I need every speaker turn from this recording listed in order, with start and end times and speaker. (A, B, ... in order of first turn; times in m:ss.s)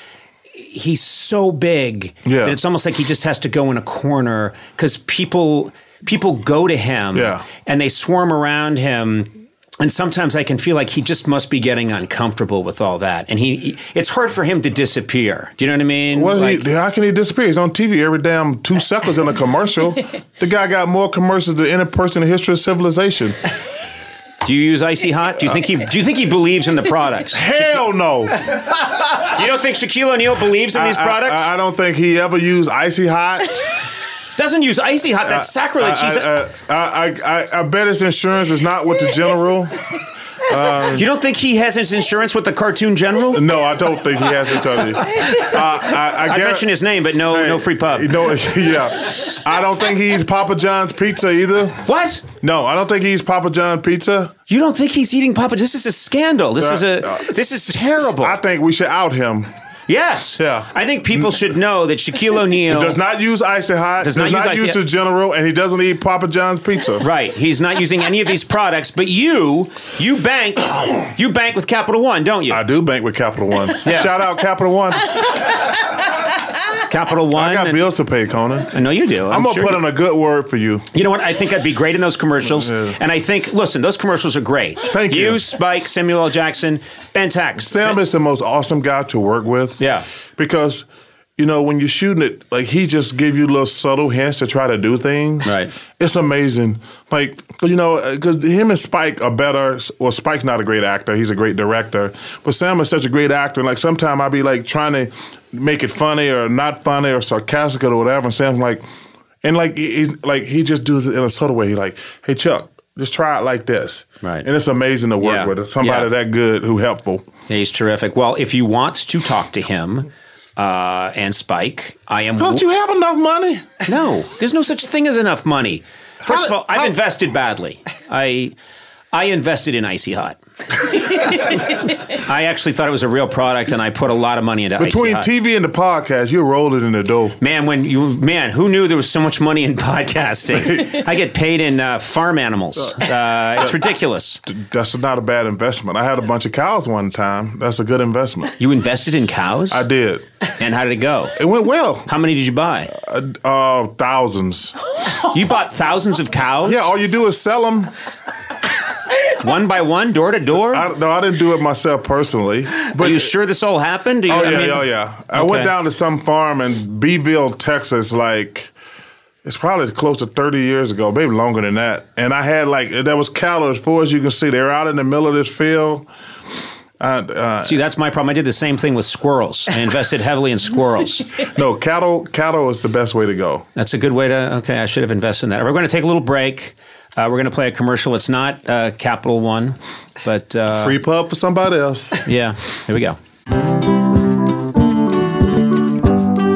0:00.6-0:16.6 A
0:02.2-0:02.6 B
0:07.1-0:07.4 B
0:16.1-0:23.4 B
0:24.4-0:27.7 A
0:27.3-0:28.7 B
0:29.1-0:31.5 A
0:30.7-0:33.7 B
0:34.4-0:36.3 A
0:35.2-0:41.1 B
0:40.9-0:43.4 A
0:43.3-0:54.3 B
0:46.1-0:48.1 A
0:51.8-0:52.2 A
0:54.5-0:58.4 A
0:56.6-0:59.5 B
0:59.9-1:03.0 A
1:00.4-1:01.4 B
1:02.7-1:07.0 B
1:04.0-1:04.8 A
1:07.0-1:12.6 A
1:12.5-1:15.4 B
1:13.8-1:14.1 A
1:16.9-1:17.8 A
1:17.3-1:20.9 B
1:18.7-1:19.8 A
1:20.9-1:28.0 A
1:22.4-1:23.0 B
1:24.9-1:25.4 B
1:27.6-1:29.8 B
1:29.8-1:30.0 A
1:30.4-1:30.8 B
1:31.4-1:48.8 B
1:35.4-1:35.7 A
1:49.4-1:57.3 B
1:55.2-1:56.1 A
1:57.5-2:02.6 A
2:02.4-2:03.8 B
2:03.8-2:08.5 A
2:06.2-2:07.0 B
2:09.1-2:10.4 A
2:11.1-2:15.3 A
2:14.8-2:17.4 B
2:17.4-2:24.4 A
2:20.6-2:20.9 B
2:23.6-2:23.8 B
2:24.4-2:28.5 B
2:28.6-2:29.8 A
2:29.7-2:30.2 B
2:30.6-2:31.4 A
2:31.4-2:32.1 B
2:32.0-2:32.9 A
2:32.9-2:34.8 B
2:35.2-2:36.9 A
2:36.6-2:37.9 B
2:39.3-2:40.9 A
2:40.7-2:43.3 B
2:43.0-2:45.7 A
2:44.3-2:48.7 B
2:49.4-2:56.1 B
2:57.0-2:57.8 B
2:57.6-3:01.3 A
3:01.3-3:03.6 B
3:03.7-3:11.0 A
3:10.7-3:12.2 B
3:12.2-3:13.2 A